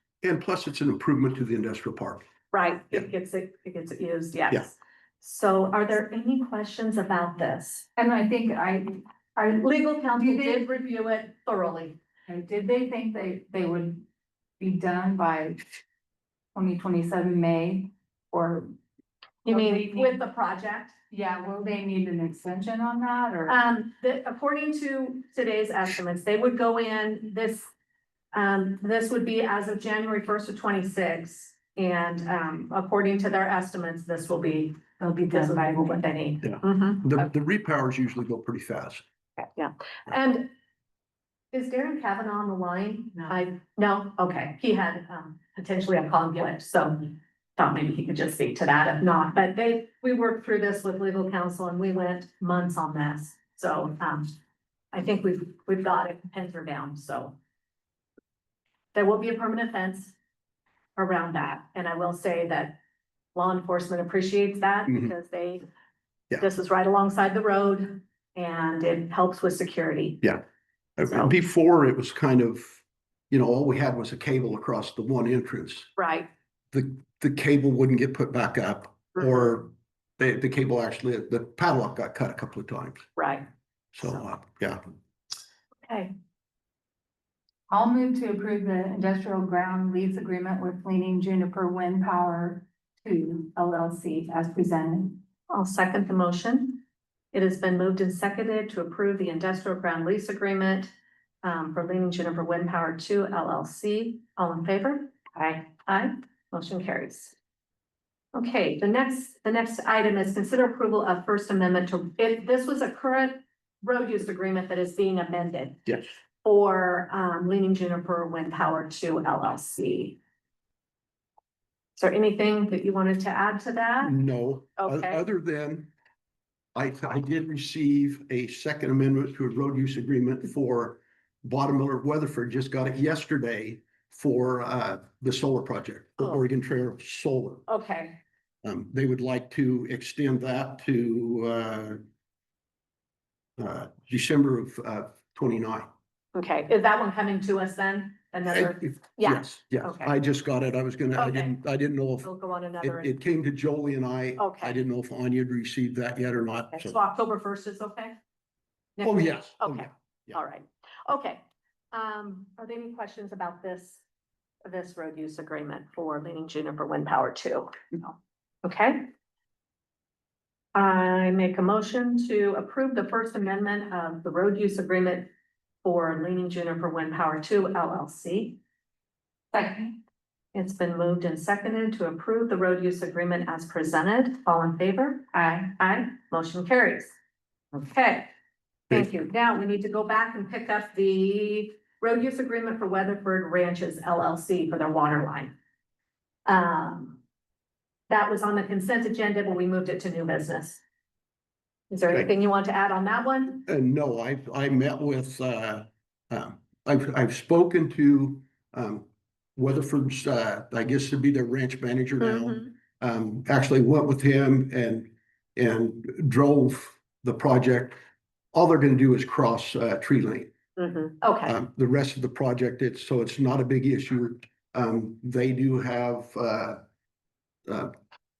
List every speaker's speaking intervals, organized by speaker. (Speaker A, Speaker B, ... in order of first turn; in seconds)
Speaker A: 0.2-2.2, 36.4-39.0, 64.9-65.1, 71.0-75.9, 76.7-83.1, 83.9-84.8, 124.0-125.9, 126.8-137.7, 138.6-142.0, 143.6-145.9, 148.5-152.3, 152.8-157.0, 159.0-160.4, 203.7-218.0, 218.5-220.5, 221.4-226.8, 227.7-227.9
Speaker B: 2.5-7.8, 9.6-12.0, 19.4-20.9, 23.5-27.7, 28.3-37.2, 39.4-40.5, 41.5-54.3, 54.9-57.4, 58.9-60.1, 61.0-62.8, 63.4-65.7, 66.4-70.2, 71.1-71.3, 76.0-76.3, 83.2-83.5, 85.9-86.1, 95.5-96.8, 97.3-100.9, 101.4-105.1, 105.8-107.3, 108.3-115.9, 116.4-120.2, 122.0-124.2, 124.8-125.2, 137.7-138.2, 146.3-150.1, 151.2-151.6, 152.2-153.2, 154.4-154.8, 156.7-158.2, 159.0-161.4, 161.9-164.0, 164.7-169.1, 170.8-175.3, 175.8-178.6, 180.5-185.3, 185.8-187.1, 187.7-188.3, 188.9-195.5, 196.5-197.2, 198.1-200.8, 201.9-203.7, 212.2-212.7, 220.8-221.6
Speaker C: 8.0-10.7, 12.3-14.0, 14.6-15.6, 16.6-18.7, 19.5-20.1, 21.1-23.6, 35.0-36.0, 87.7-95.2, 105.4-105.7, 179.5-179.9, 185.3-185.7